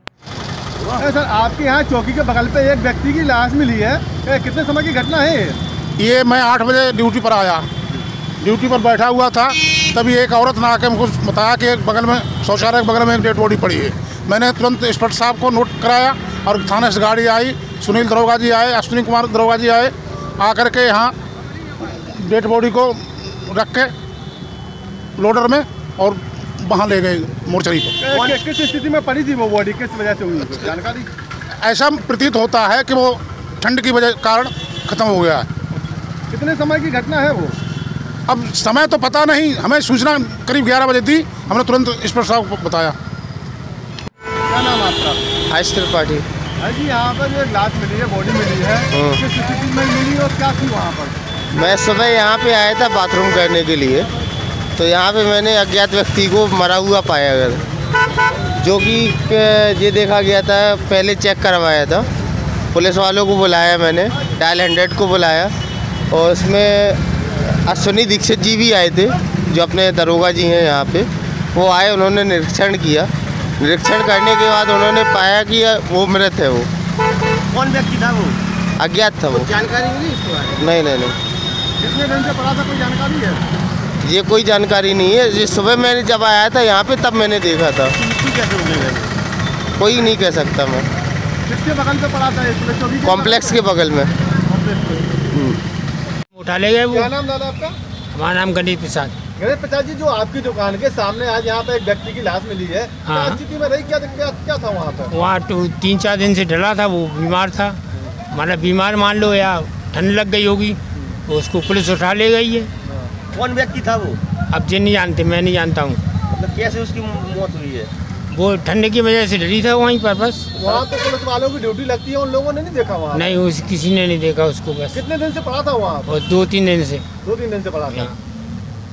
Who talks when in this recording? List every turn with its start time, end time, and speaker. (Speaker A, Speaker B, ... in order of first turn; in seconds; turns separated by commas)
Speaker A: 1.0-5.6, Speaker B: 6.0-7.7, Speaker B: 8.4-21.1, Speaker B: 21.8-23.9, Speaker B: 25.2-28.0, Speaker A: 28.0-31.1, Speaker B: 31.6-35.5, Speaker A: 36.3-37.5, Speaker B: 38.3-42.9, Speaker A: 44.5-45.2, Speaker C: 45.5-46.2, Speaker A: 46.6-51.2, Speaker C: 48.9-49.2, Speaker C: 51.5-54.1, Speaker C: 54.8-57.6, Speaker C: 58.6-62.1, Speaker C: 62.7-65.5, Speaker C: 66.1-76.7, Speaker D: 77.5-78.4, Speaker C: 78.8-79.5, Speaker D: 79.4-80.6, Speaker C: 80.6-81.2, Speaker A: 81.8-83.4, Speaker C: 84.0-88.0, Speaker D: 88.0-89.1, Speaker C: 89.8-90.9, Speaker A: 91.5-93.6, Speaker C: 93.0-94.1, Speaker A: 94.4-95.2, Speaker C: 95.3-95.6, Speaker E: 96.3-97.1, Speaker A: 96.9-97.8, Speaker E: 98.1-99.1, Speaker A: 99.4-105.1, Speaker E: 103.0-103.4, Speaker E: 105.1-107.8, Speaker E: 108.3-112.7, Speaker A: 112.8-113.1, Speaker D: 113.3-114.2, Speaker E: 114.5-116.0, Speaker D: 116.3-117.9, Speaker E: 118.3-120.8, Speaker A: 120.6-123.4, Speaker E: 123.1-125.0, Speaker A: 124.9-126.1, Speaker E: 126.0-127.0, Speaker A: 127.2-128.1